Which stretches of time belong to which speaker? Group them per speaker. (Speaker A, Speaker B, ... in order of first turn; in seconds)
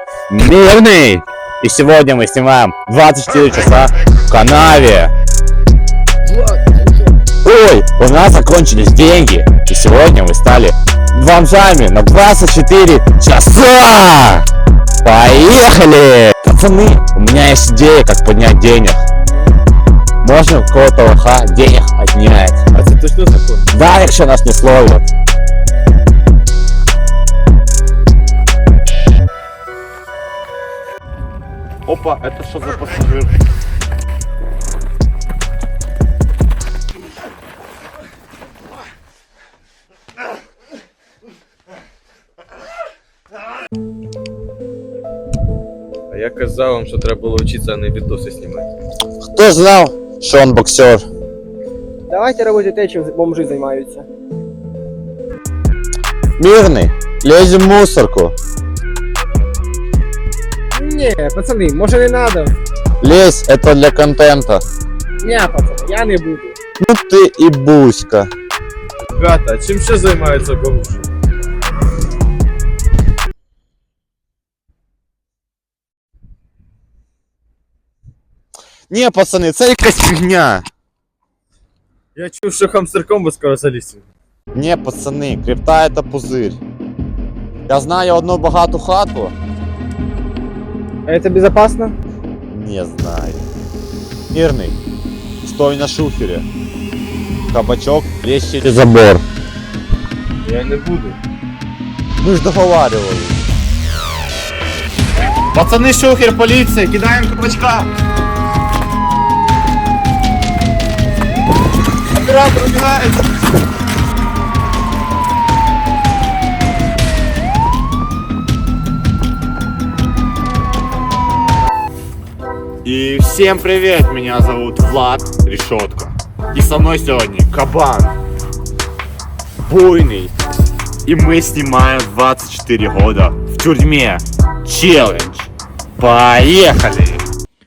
Speaker A: 0.3-5.1, 7.4-14.4, 15.0-19.0, 20.2-22.6, 23.7-25.1, 31.9-33.3, 49.3-51.0, 56.4-58.3, 63.0-64.6, 66.8-68.3, 78.9-80.6, 84.5-86.6, 87.7-89.3, 92.5-93.5, 94.3-94.8, 95.4-96.5, 97.5-99.2, 102.2-103.4, 105.5-107.9, 112.1-113.2, 122.8-128.2, 129.7-130.3, 131.1-137.2
Speaker B: 22.7-23.7, 46.1-48.7, 69.0-71.1, 82.2-84.0, 100.4-101.2
Speaker C: 52.1-54.0, 60.7-62.5, 65.2-66.5, 91.0-91.9